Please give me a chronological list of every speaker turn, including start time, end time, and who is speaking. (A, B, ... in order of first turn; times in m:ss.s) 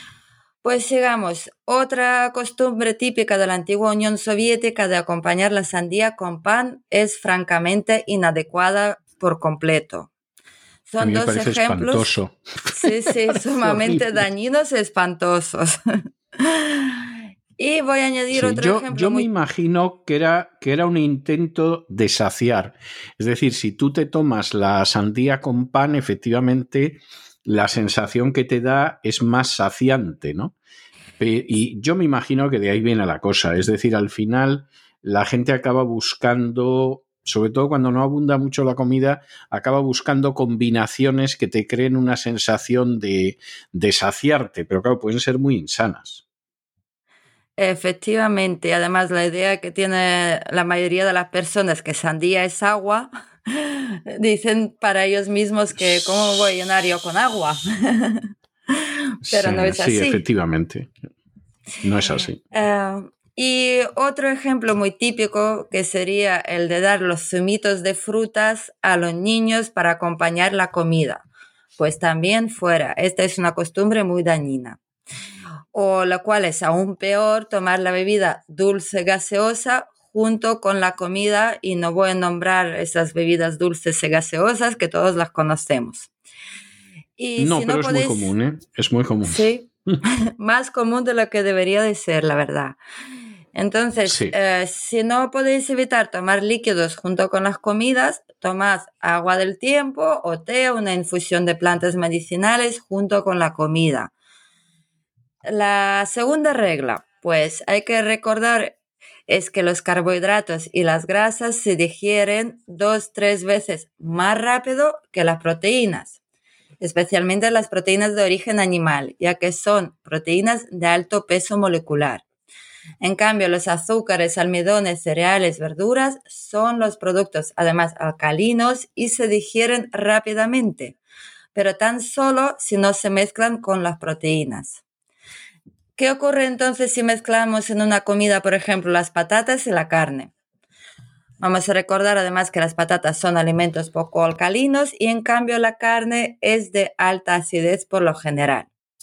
0:00.6-0:10.1 A
0:10.9-0:12.1 A
0:11.0-0:14.2 B
0:12.7-0:15.8 A
0:16.4-0:19.3 A
0:18.3-0:30.5 B
0:31.2-0:46.2 B
0:47.6-1:00.2 A
0:59.3-1:01.1 B
1:01.8-1:02.4 B
1:02.5-1:11.2 A
1:11.8-1:14.8 A
1:15.7-1:26.1 A
1:27.2-1:28.3 A
1:27.4-1:30.0 B
1:29.3-1:32.8 A
1:33.5-1:44.1 A
1:34.1-1:34.3 B
1:45.5-1:48.8 A
1:49.3-1:56.2 A
1:56.8-2:02.2 A
2:03.0-2:11.0 A
2:11.5-2:14.8 A
2:16.0-2:20.3 A
2:21.4-2:28.7 A